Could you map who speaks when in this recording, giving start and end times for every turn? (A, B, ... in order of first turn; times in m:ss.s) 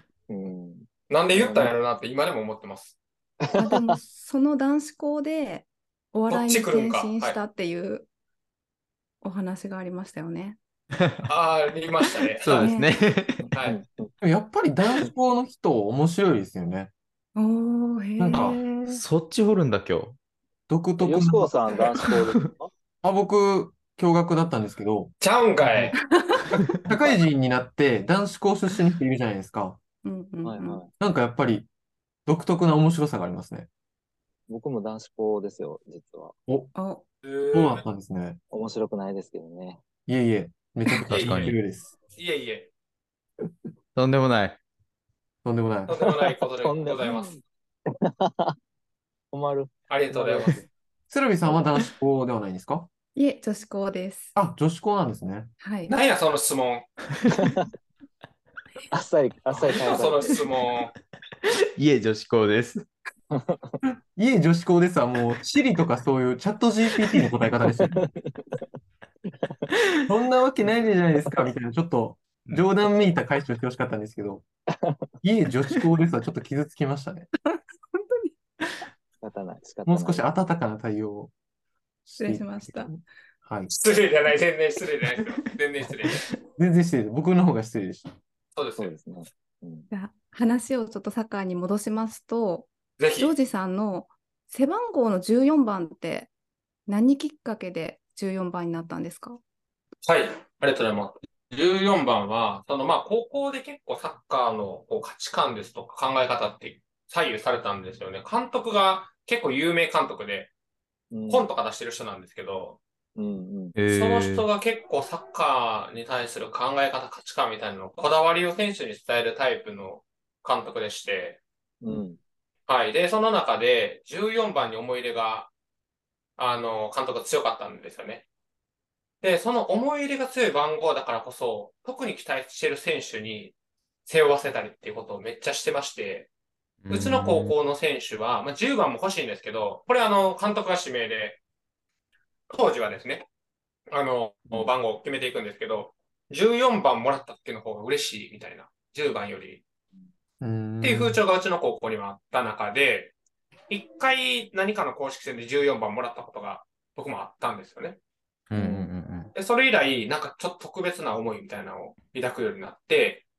0:00.3-0:01.7 A
0:01.1-0:03.0 B
0:03.5-0:04.0 A
0:03.6-0:08.1 C
0:06.3-0:07.4 B
0:09.2-0:10.6 C
0:11.0-0:11.3 D
0:11.3-0:12.7 B
0:12.4-0:13.4 D
0:12.6-0:13.0 C
0:13.4-0:14.1 A
0:13.5-0:13.8 B
0:14.2-0:16.9 E
0:17.3-0:19.0 C
0:18.2-0:18.6 E
0:18.8-0:20.2 D
0:20.7-0:21.5 E
0:21.0-0:22.7 A
0:22.1-0:22.4 D
0:23.0-0:25.1 E
0:25.2-0:26.0 B
0:25.6-0:26.0 E
0:26.1-0:26.4 C
0:26.8-0:29.8 E
0:30.0-0:30.8 C
0:30.4-0:30.9 A
0:31.0-0:31.7 E
0:32.2-0:33.7 E
0:34.5-0:36.3 A
0:36.5-0:36.7 E
0:36.7-0:37.0 C
0:37.2-0:37.8 B
0:37.5-0:38.4 E
0:38.5-0:39.8 A
0:40.1-0:41.9 E
0:41.1-0:41.5 B
0:41.1-0:41.6 D
0:42.2-0:42.7 B
0:43.9-0:44.6 D
0:45.4-0:46.1 E
0:45.9-0:47.4 B
0:46.1-0:47.4 A
0:48.0-0:48.5 A
0:49.3-0:50.6 A
0:49.9-0:50.6 B
0:51.1-0:52.9 E
0:53.1-0:54.3 C
0:54.3-0:55.5 E
0:55.6-0:55.9 C
0:55.9-0:56.9 B
0:57.3-0:57.7 A
0:58.9-1:00.4 A
0:59.5-1:00.9 B
1:01.8-1:02.8 D
1:03.3-1:03.8 A
1:03.8-1:08.0 E
1:07.8-1:08.6 A
1:09.3-1:09.7 A
1:10.1-1:14.4 E
1:15.2-1:17.3 E
1:17.4-1:18.3 C
1:19.2-1:20.3 A
1:19.8-1:21.3 E
1:22.0-1:23.7 E
1:22.2-1:22.9 C
1:23.7-1:26.3 B
1:26.6-1:28.1 E
1:28.6-1:28.9 B
1:28.8-1:29.9 A
1:29.9-1:36.3 C
1:33.0-1:33.3 B
1:36.9-1:39.4 C
1:40.0-1:50.5 B
1:51.1-1:51.4 A
1:51.3-1:52.8 B
1:53.2-1:53.8 A
1:53.8-1:54.5 D
1:53.9-2:01.4 B
2:01.8-2:02.2 A
2:02.7-2:05.5 B
2:06.4-2:08.2 B
2:09.2-2:13.5 B
2:14.0-2:16.3 B
2:16.8-2:17.5 D
2:16.9-2:21.4 B
2:22.5-2:23.2 B
2:23.9-2:29.6 B
2:30.4-2:31.2 E
2:30.8-2:33.1 B
2:33.7-2:38.0 B
2:38.5-2:38.9 A
2:38.5-2:39.3 D
2:39.3-2:43.2 B